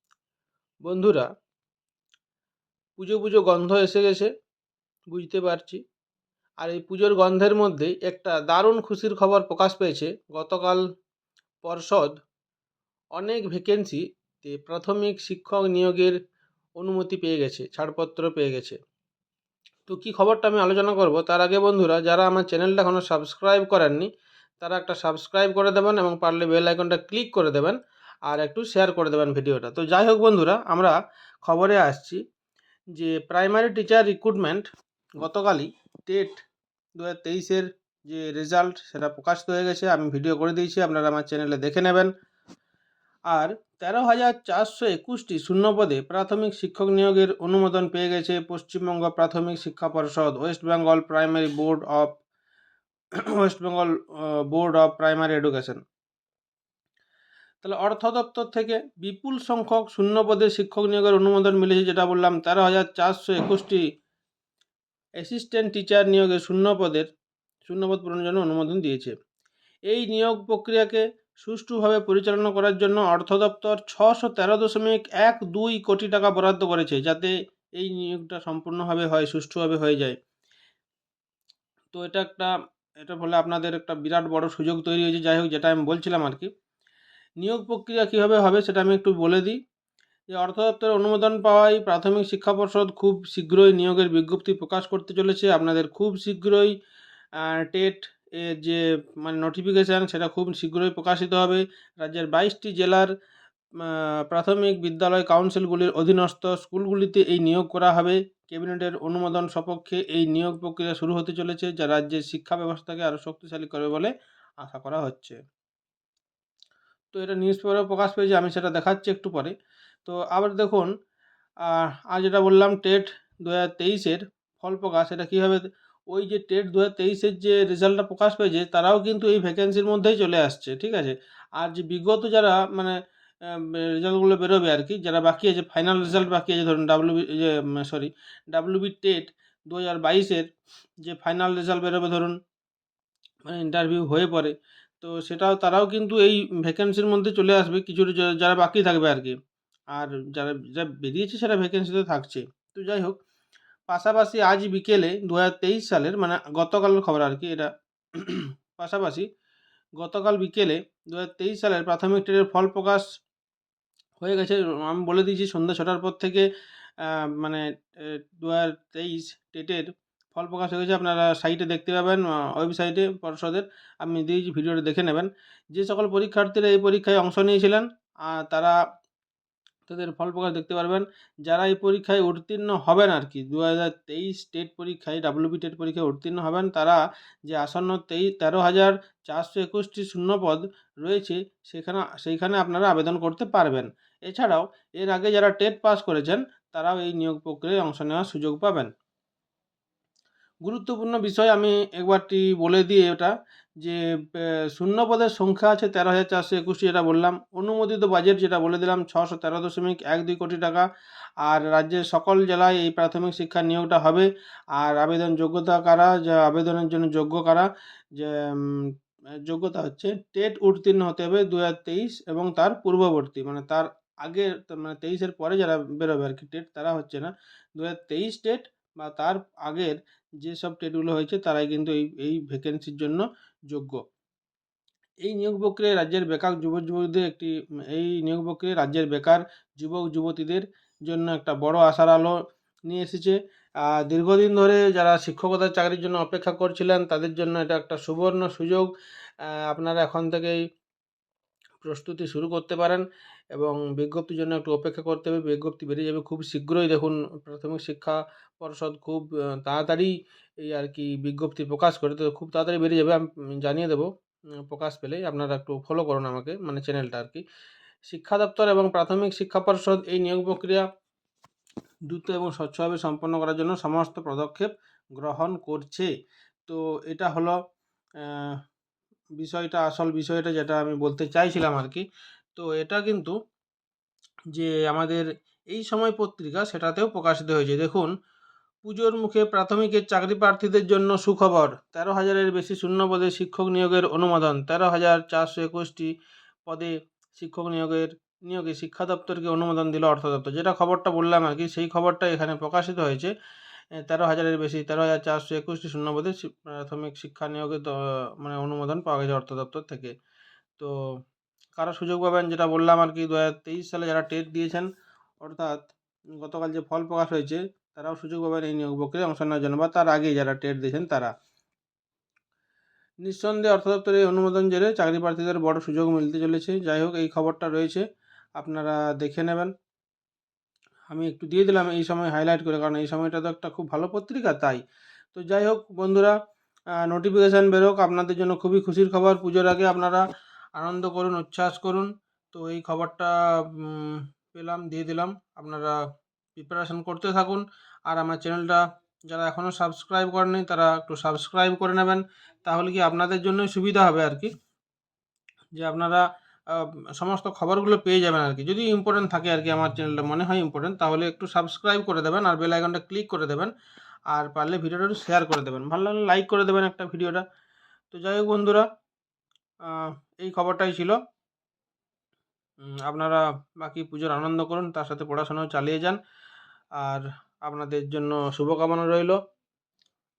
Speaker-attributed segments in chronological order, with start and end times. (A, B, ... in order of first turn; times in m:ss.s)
0:00.8-0:01.3 A
0:03.0-0:04.3 A
0:05.1-0:05.8 A
0:06.6-0:10.8 A
0:11.6-0:12.1 A
0:13.2-0:16.1 A
0:16.8-0:18.8 A
0:19.9-0:24.1 A
0:24.6-0:32.2 A
0:33.0-0:34.7 A
0:35.2-0:36.4 A
0:37.0-0:42.1 A
0:43.3-0:52.2 A
0:53.2-0:55.8 A
0:57.6-1:03.8 A
1:05.2-1:07.1 A
1:07.6-1:09.1 A
1:09.9-1:20.2 A
1:21.9-1:26.5 A
1:27.4-1:29.6 A
1:30.3-1:36.8 A
1:37.4-1:43.1 A
1:43.8-1:55.4 A
1:57.1-1:59.5 A
2:00.1-2:00.9 A
2:01.6-2:13.0 A
2:13.5-2:20.4 A
2:21.0-2:22.4 A
2:23.5-2:29.4 A
2:29.9-2:33.2 A
2:33.9-2:39.2 A
2:40.0-2:43.0 A
2:44.2-2:46.4 A
2:47.0-2:58.8 A
2:59.9-3:18.9 A
3:20.7-3:30.8 A
3:31.4-3:38.9 A
3:39.4-3:54.0 A
3:55.2-4:02.3 A
4:02.9-4:08.9 A
4:09.7-4:10.6 A
4:11.8-4:20.1 A
4:20.6-4:24.1 A
4:24.6-4:27.4 A
4:28.1-4:30.8 A
4:32.1-4:36.1 A
4:36.7-4:37.6 A
4:38.2-4:38.6 A
4:39.4-4:43.4 A
4:44.5-4:48.1 A
4:48.8-4:56.1 A
4:56.7-5:03.3 A
5:04.0-5:10.1 A
5:11.8-5:14.9 A
5:15.4-5:21.3 A
5:23.2-5:28.0 A
5:28.6-5:29.7 A
5:31.1-5:34.8 A
5:35.3-5:36.4 A
5:37.0-5:40.2 A
5:40.8-5:46.0 A
5:46.6-5:54.5 A
5:55.8-6:03.7 A
6:04.3-6:07.4 A
6:08.1-6:08.9 A
6:09.8-6:11.2 A
6:12.9-6:16.2 A
6:17.0-6:19.4 A